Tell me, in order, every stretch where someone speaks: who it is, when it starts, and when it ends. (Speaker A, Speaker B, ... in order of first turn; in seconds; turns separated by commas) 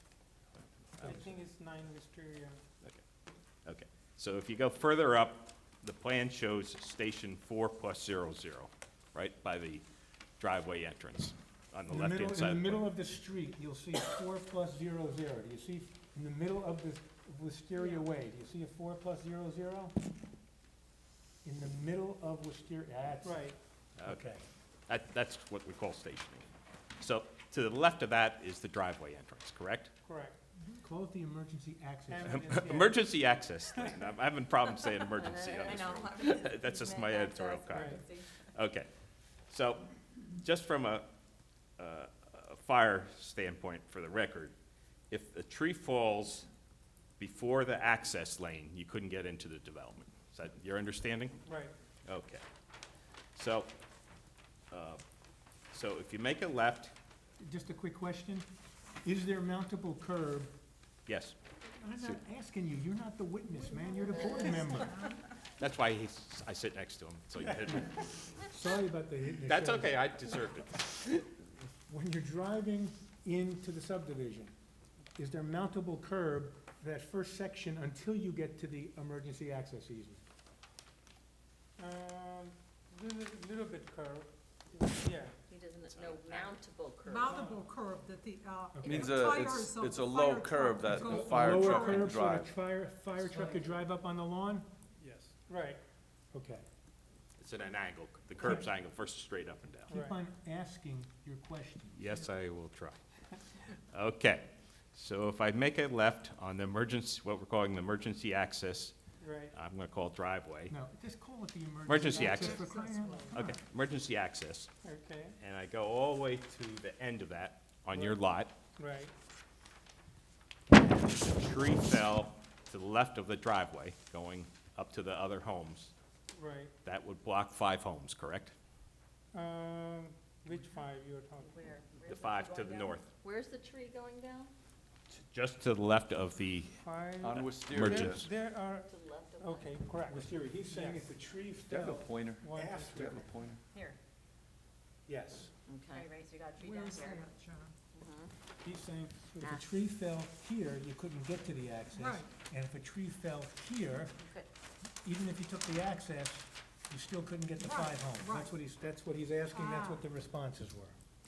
Speaker A: 0.6-1.3, Speaker B: 1.0-2.6, Speaker A: 3.6-9.8, Speaker A: 10.4-12.8, Speaker C: 11.9-19.9, Speaker C: 21.4-23.5, Speaker B: 23.2-23.6, Speaker A: 24.0-24.3, Speaker C: 24.0-24.4, Speaker A: 24.9-26.5, Speaker A: 27.0-29.9, Speaker B: 30.0-30.4, Speaker C: 30.8-32.9, Speaker B: 32.1-33.0, Speaker A: 32.2-38.9, Speaker D: 35.1-38.5, Speaker B: 37.7-38.0, Speaker A: 39.5-41.1, Speaker A: 41.8-44.5, Speaker A: 45.1-46.5, Speaker A: 47.2-51.4, Speaker B: 51.5-51.7, Speaker A: 52.1-52.4, Speaker A: 53.3-53.7, Speaker A: 54.7-55.0, Speaker A: 55.7-56.9, Speaker C: 57.4-58.5, Speaker C: 59.0-60.5, Speaker A: 61.1-61.3, Speaker C: 61.8-65.0, Speaker E: 63.5-65.2, Speaker A: 65.6-68.3, Speaker C: 68.3-70.1, Speaker A: 69.4-71.3, Speaker C: 71.9-74.5, Speaker C: 75.2-80.2, Speaker B: 81.8-85.3, Speaker D: 85.5-87.3, Speaker A: 85.9-86.5, Speaker E: 87.0-92.1, Speaker B: 87.2-87.6, Speaker C: 88.8-89.1, Speaker F: 88.8-92.5, Speaker D: 88.9-89.2, Speaker C: 91.0-94.7, Speaker B: 95.5-95.8, Speaker C: 96.3-96.6, Speaker A: 97.4-99.9, Speaker C: 99.9-102.2, Speaker B: 99.9-100.2, Speaker A: 101.9-103.0, Speaker A: 103.7-108.9, Speaker B: 109.2-109.5, Speaker A: 109.5-110.7, Speaker C: 110.7-113.6, Speaker A: 111.8-114.7, Speaker E: 112.2-113.3, Speaker B: 114.8-115.3, Speaker A: 115.4-118.5, Speaker B: 118.8-119.1, Speaker A: 120.7-125.9, Speaker B: 126.3-126.7, Speaker A: 126.8-128.5, Speaker B: 129.3-131.6, Speaker D: 131.4-134.5, Speaker A: 132.1-133.1, Speaker A: 135.3-136.8, Speaker B: 136.8-141.1, Speaker F: 137.2-138.3, Speaker A: 137.7-138.2, Speaker D: 138.8-139.8, Speaker C: 140.1-143.3, Speaker F: 141.7-143.6, Speaker B: 142.4-143.1, Speaker C: 145.1-145.5, Speaker D: 145.7-147.2, Speaker E: 146.6-147.8, Speaker D: 147.9-148.3, Speaker C: 148.6-154.2, Speaker D: 149.4-149.7, Speaker E: 151.9-152.3, Speaker D: 154.2-154.5, Speaker C: 155.0-160.9, Speaker E: 157.6-158.5, Speaker E: 159.5-160.0